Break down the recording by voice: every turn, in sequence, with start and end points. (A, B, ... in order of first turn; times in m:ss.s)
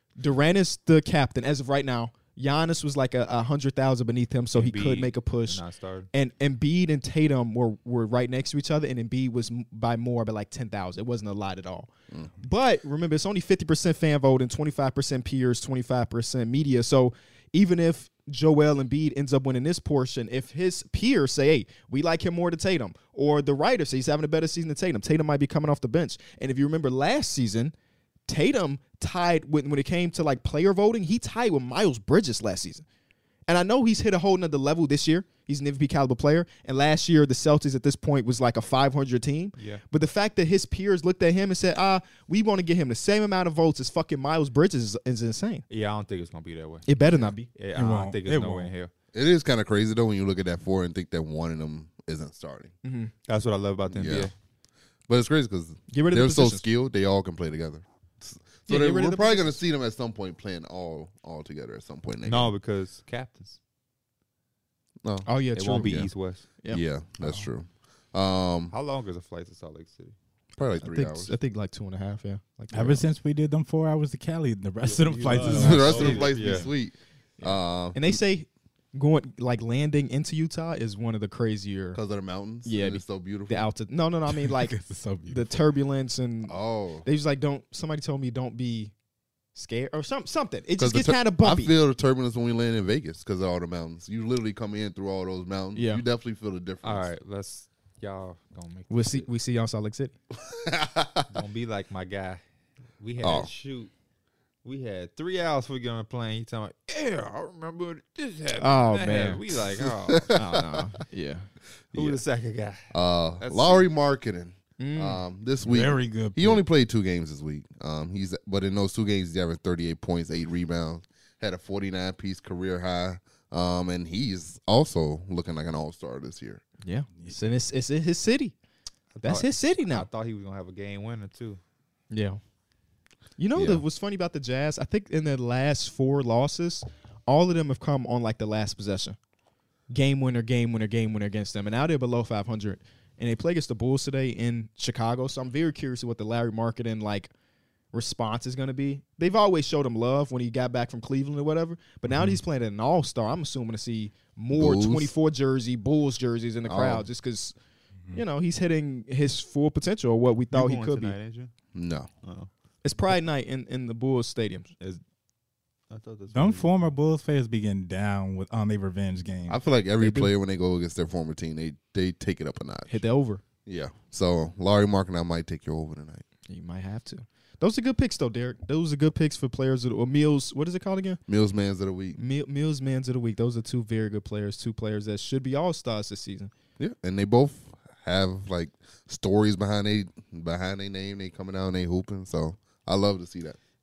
0:00.2-0:27.7 A
0:04.5-0:06.1 B
0:28.3-0:32.8 A
0:33.5-0:45.6 A
0:39.6-0:39.8 B
0:45.7-0:48.9 B
0:46.8-0:47.5 A
0:47.7-0:48.7 C
0:49.1-0:52.7 D
0:52.8-0:53.1 A
0:53.3-0:54.3 B
0:53.9-0:54.3 D
0:55.1-1:02.5 D
0:55.9-0:56.6 A
0:58.7-0:59.6 A
1:02.2-1:03.6 B
1:05.2-1:06.0 A
1:05.5-1:06.4 B
1:06.7-1:08.7 D
1:08.7-1:10.1 B
1:10.6-1:11.4 D
1:10.8-1:13.0 A
1:12.7-1:16.4 C
1:14.8-1:16.7 B
1:15.4-1:18.2 D
1:16.0-1:16.6 A
1:17.4-1:22.0 A
1:21.9-1:23.7 D
1:22.6-1:24.8 A
1:24.3-1:25.6 C
1:25.3-1:28.9 A
1:26.5-1:27.0 D
1:29.5-1:31.7 A
1:30.8-1:37.1 D
1:35.7-1:36.0 A
1:36.8-1:39.3 B
1:38.9-1:40.1 A
1:40.4-1:41.3 D
1:41.3-1:42.4 B
1:43.0-1:43.9 B
1:43.2-1:43.5 D
1:44.6-1:50.6 B
1:48.6-1:49.4 A
1:49.8-1:50.8 D
1:50.3-1:51.5 A
1:51.9-1:52.2 D
1:51.9-1:53.9 B
1:52.9-2:06.6 D
1:54.8-1:55.2 A
1:55.6-1:56.6 C
2:06.8-2:08.5 A
2:09.1-2:11.6 B
2:09.2-2:10.1 A
2:12.1-2:12.4 A
2:13.4-2:19.2 A
2:13.5-2:13.8 D
2:19.9-2:27.3 A
2:27.9-2:37.5 A
2:32.1-2:32.4 C
2:34.5-2:35.1 D
2:36.6-2:37.1 D
2:38.1-2:41.2 A
2:40.5-2:41.5 B
2:41.7-2:42.1 D
2:42.2-2:42.5 B
2:42.8-2:44.7 A
2:45.9-2:46.7 B
2:46.3-2:49.6 C
2:49.5-2:53.0 D
2:50.0-2:50.3 A
2:52.9-2:53.4 A
2:53.6-2:56.2 D
2:56.5-3:01.2 A
3:01.3-3:02.2 D
3:02.1-3:06.5 A
3:06.8-3:13.6 D